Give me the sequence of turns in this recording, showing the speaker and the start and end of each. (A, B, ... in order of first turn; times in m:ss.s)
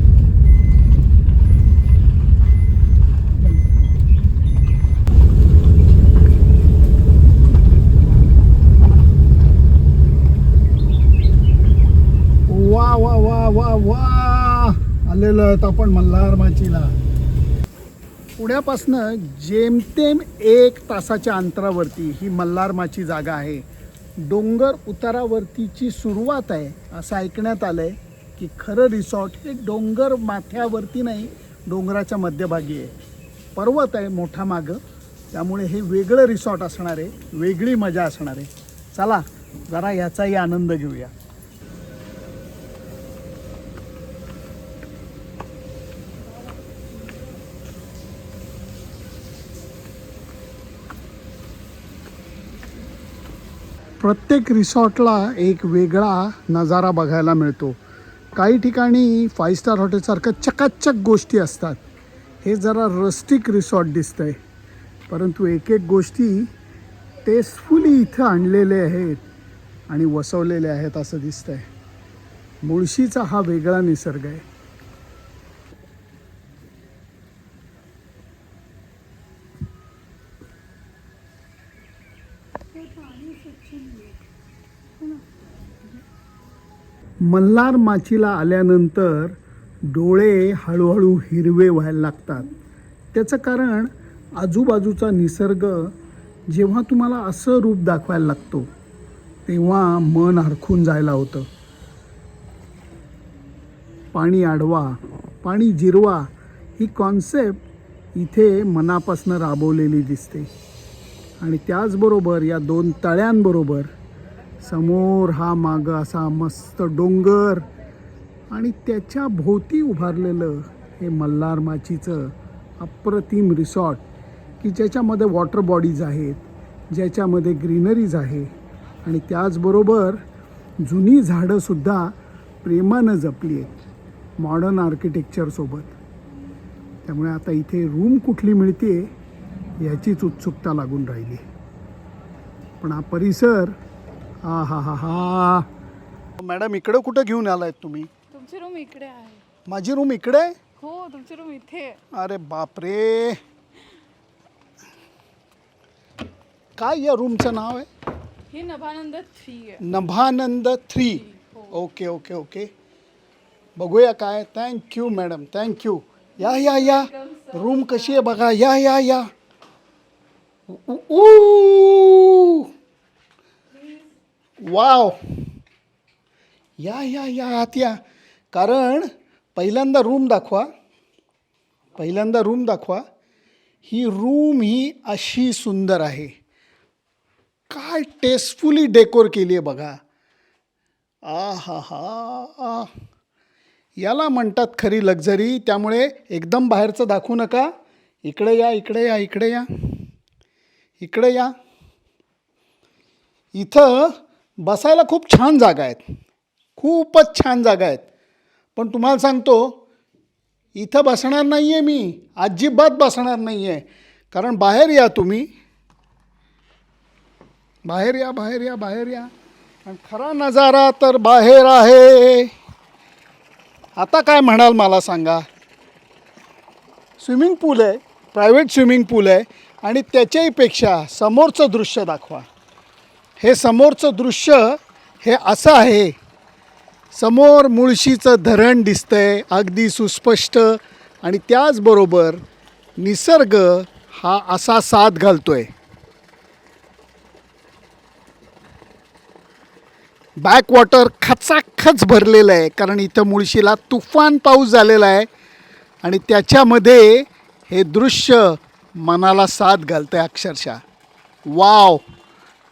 0:12.5-0:17.0 A
0:18.4-0:23.6 A
0:24.2-0:32.9 A
0:33.6-0:41.1 A
0:54.0-0:57.8 A
0:58.3-1:01.8 A
1:02.4-1:04.4 A
1:05.1-1:06.5 A
1:07.2-1:09.2 A
1:09.9-1:11.7 A
1:12.6-1:14.4 A
1:22.7-1:24.2 B
1:27.2-1:32.5 A
1:33.1-1:35.9 A
1:36.5-1:38.7 A
1:39.4-1:41.5 A
1:44.1-1:47.6 A
1:48.1-1:50.5 A
1:51.4-1:53.9 A
1:54.6-1:57.7 A
1:58.5-2:04.0 A
2:04.6-2:08.5 A
2:09.0-2:10.2 A
2:10.8-2:13.8 A
2:14.4-2:16.0 A
2:17.0-2:19.1 A
2:19.8-2:21.4 A
2:22.8-2:23.8 A
2:24.4-2:25.7 A
2:26.4-2:28.1 A
2:28.3-2:29.4 B
2:29.7-2:30.6 A
2:30.8-2:32.0 B
2:32.1-2:33.4 A
2:36.8-2:37.9 A
2:38.5-2:39.8 B
2:39.8-2:42.7 A
2:41.2-2:41.7 B
2:43.8-2:49.3 A
2:46.6-2:47.5 B
2:50.7-2:52.7 A
2:54.6-2:55.5 A
2:56.8-2:58.0 A
2:58.5-3:00.7 A
3:02.0-3:03.0 A
3:03.8-3:06.3 A
3:07.7-3:10.0 A
3:11.2-3:12.9 A
3:14.0-3:17.7 A
3:18.2-3:20.1 A
3:21.0-3:21.5 A
3:23.5-3:26.1 A
3:26.8-3:28.0 A
3:28.8-3:29.8 A
3:30.7-3:35.5 A
3:37.8-3:39.3 A
3:39.8-3:42.5 A
3:44.0-3:45.4 A
3:47.2-3:52.5 A
3:53.4-3:56.1 A
3:57.1-4:02.4 A
4:03.0-4:05.7 A
4:10.4-4:15.3 A
4:16.0-4:20.8 A
4:21.5-4:22.0 A